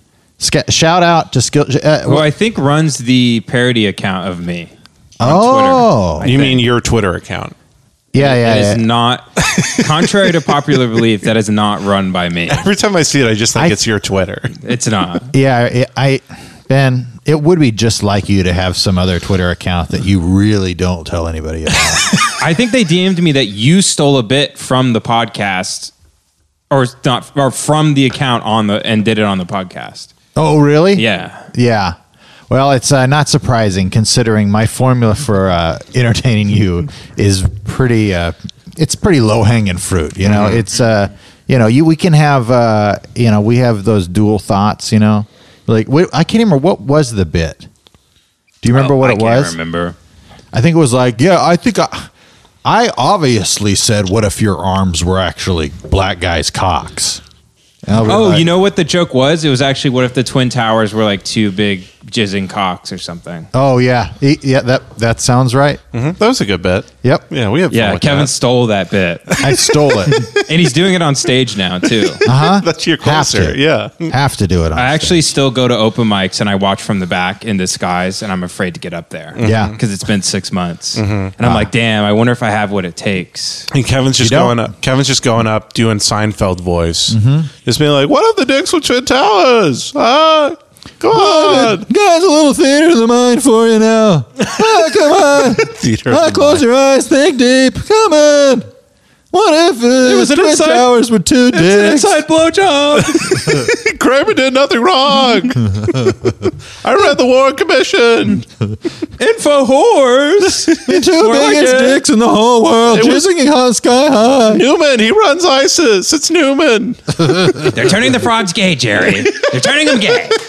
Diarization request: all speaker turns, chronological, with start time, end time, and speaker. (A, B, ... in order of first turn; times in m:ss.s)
0:00.4-0:02.3 A
0:02.0-0:06.6 B
0:05.2-0:06.3 A
0:06.2-0:07.5 C
0:08.1-0:08.8 A
0:08.2-0:12.7 B
0:09.4-0:09.8 C
0:12.5-0:14.6 C
0:14.6-0:15.3 B
0:15.3-0:22.1 A
0:22.2-0:25.9 B
0:26.7-0:30.1 B
0:30.4-0:32.0 A
0:31.0-0:31.5 B
0:32.5-0:47.7 A
0:48.6-0:49.6 A
0:48.7-0:49.9 B
0:50.5-0:52.1 A
0:52.6-0:57.2 A
0:57.8-0:58.5 A
0:58.0-1:03.5 B
1:03.5-1:05.8 A
1:05.9-1:08.3 C
1:07.7-1:09.4 B
1:09.3-1:10.4 C
1:09.4-1:10.3 A
1:10.4-1:12.2 B
1:12.0-1:14.1 C
1:12.2-1:15.2 A
1:14.8-1:23.7 B
1:19.4-1:19.8 C
1:19.4-1:19.8 A
1:21.0-1:21.3 C
1:21.4-1:21.7 A
1:23.7-1:31.9 C
1:24.2-1:24.7 A
1:27.1-1:27.5 A
1:31.1-1:38.7 A
1:34.4-1:34.8 C
1:35.4-1:36.6 C
1:39.3-1:42.2 A
1:40.0-1:40.9 B
1:41.5-1:43.4 B
1:43.0-1:48.5 C
1:43.3-1:43.7 A
1:45.8-1:46.3 A
1:49.2-1:52.0 B
1:50.7-1:54.6 A
1:52.9-1:53.2 C
1:54.4-1:57.2 C
1:57.2-1:57.7 A
1:57.7-2:00.4 B